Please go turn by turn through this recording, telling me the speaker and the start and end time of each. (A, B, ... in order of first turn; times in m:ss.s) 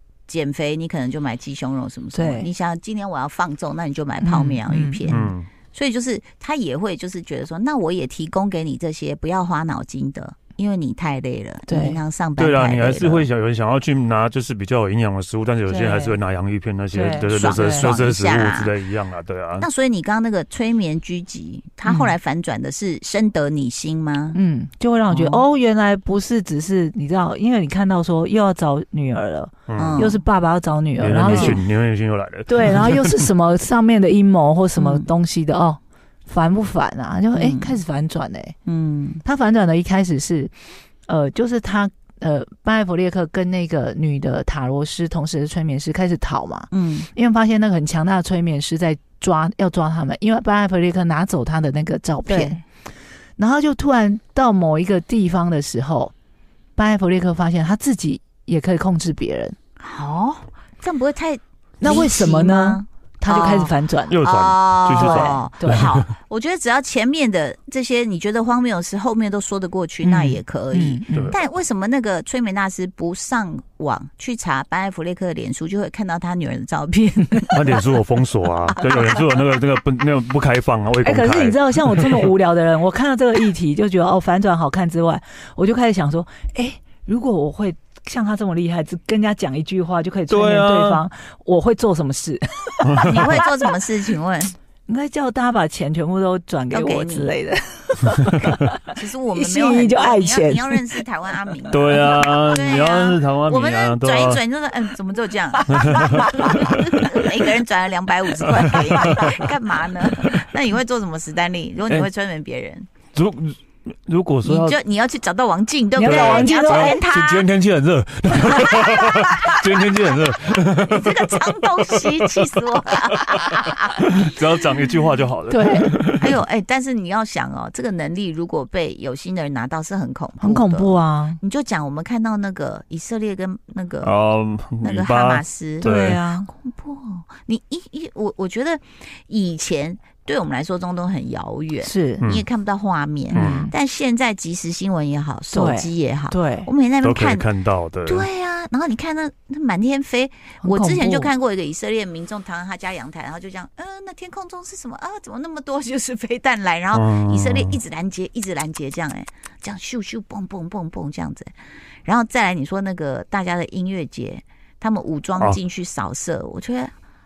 0:00.3-0:13.3 A
0:02.1-0:02.5 B
0:04.2-0:05.2 B
0:05.1-0:05.5 C
0:11.7-0:12.0 B
0:12.4-0:19.6 C
0:15.7-0:16.2 B
0:16.9-0:17.9 B
0:17.3-0:18.7 A
0:19.6-0:24.4 A
0:21.8-0:22.1 B
0:24.3-0:31.6 B
0:25.1-0:25.4 A
0:29.7-0:30.1 C
0:29.7-0:30.2 A
0:31.0-0:33.3 C
0:31.2-0:31.6 A
0:32.5-0:38.6 B
0:34.8-0:35.1 A
0:37.3-0:37.8 A
0:38.6-0:39.2 A
0:39.2-0:40.5 B
0:41.1-0:52.6 B
0:46.7-0:47.1 A
0:52.2-0:52.6 A
0:53.4-0:56.1 B
0:56.8-0:59.6 B
0:59.8-1:17.8 A
1:01.8-1:04.2 B
1:04.1-1:06.1 C
1:05.0-1:05.9 B
1:10.0-1:11.4 B
1:11.1-1:11.4 C
1:17.5-1:22.3 C
1:18.8-1:19.2 A
1:21.0-1:33.7 B
1:30.3-1:31.0 C
1:32.8-1:33.3 C
1:33.0-1:34.5 A
1:34.9-1:41.0 B
1:36.7-1:37.3 A
1:38.8-1:52.9 A
1:41.7-1:44.4 C
1:41.7-1:42.2 B
1:45.7-1:47.0 C
1:45.8-1:46.8 B
1:48.5-1:49.5 C
1:53.1-1:54.8 C
1:54.4-1:57.5 A
1:56.0-1:57.0 B
1:56.0-2:06.4 C
1:58.3-2:04.3 A
2:05.5-2:06.0 B
2:06.2-2:14.1 A
2:10.4-2:11.4 B
2:14.0-2:16.2 C
2:14.8-2:15.9 A
2:15.8-2:16.5 B
2:16.5-2:27.4 A
2:21.8-2:22.2 B
2:23.3-2:23.7 B
2:23.3-2:23.7 C
2:25.5-2:26.7 B
2:27.0-2:28.3 C
2:28.0-2:41.5 A
2:30.6-2:31.3 B
2:36.9-2:37.8 C
2:42.0-2:46.9 A